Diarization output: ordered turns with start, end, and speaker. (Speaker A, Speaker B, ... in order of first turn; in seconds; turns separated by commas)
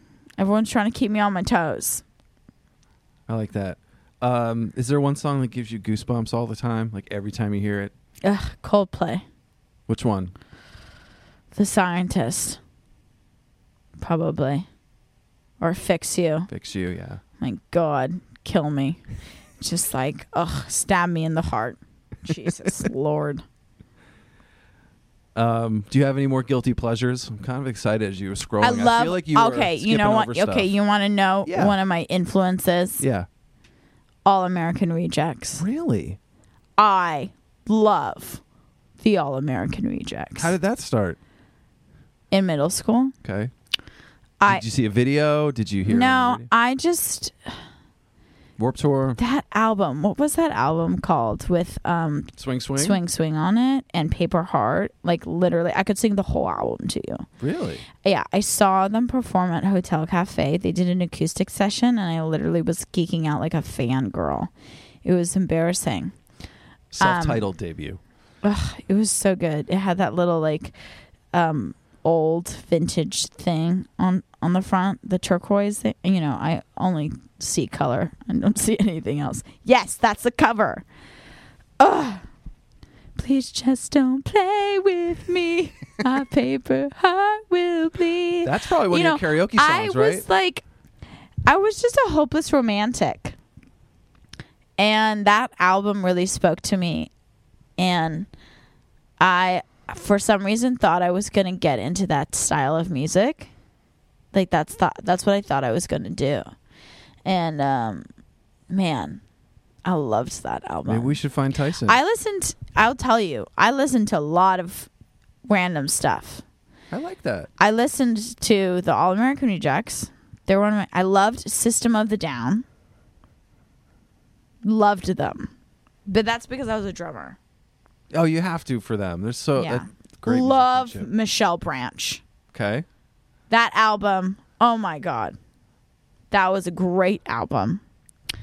Speaker A: 0.4-2.0, Speaker B: 3.3-7.9, Speaker A: 8.2-9.2, Speaker B: 9.9-10.3, Speaker A: 11.5-12.6, Speaker A: 14.0-14.7, Speaker A: 15.6-16.5, Speaker B: 16.5-17.2, Speaker A: 17.4-19.0, Speaker A: 19.6-23.4, Speaker B: 25.4-30.7, Speaker A: 28.6-33.0, Speaker B: 31.5-31.8, Speaker B: 33.0-33.3, Speaker A: 34.2-35.6, Speaker B: 35.6-36.2, Speaker A: 36.8-38.4, Speaker A: 39.0-40.5, Speaker B: 40.4-41.2, Speaker A: 42.3-43.1, Speaker B: 43.2-43.5, Speaker B: 44.5-46.5, Speaker A: 45.9-47.6, Speaker B: 48.6-49.2, Speaker A: 49.2-57.2, Speaker B: 52.4-53.0, Speaker B: 57.4-57.9, Speaker A: 58.0-64.5, Speaker A: 65.0-66.1, Speaker B: 66.9-68.0, Speaker A: 67.0-67.5, Speaker A: 68.4-70.8, Speaker A: 71.3-80.9, Speaker A: 81.8-82.2, Speaker A: 83.2-90.6, Speaker B: 88.4-90.3, Speaker A: 91.5-93.4, Speaker A: 94.8-97.1, Speaker A: 97.8-98.3, Speaker A: 99.2-103.5, Speaker A: 104.3-106.5, Speaker A: 107.2-108.1, Speaker A: 108.7-109.2, Speaker A: 109.8-111.2, Speaker B: 110.9-112.0, Speaker A: 111.8-114.9, Speaker A: 115.5-116.4, Speaker B: 116.9-117.5, Speaker A: 117.6-122.7, Speaker A: 124.6-125.5, Speaker A: 126.1-127.4, Speaker B: 128.1-131.1, Speaker A: 129.6-132.2, Speaker B: 132.5-132.8, Speaker A: 133.5-135.4, Speaker A: 136.3-137.8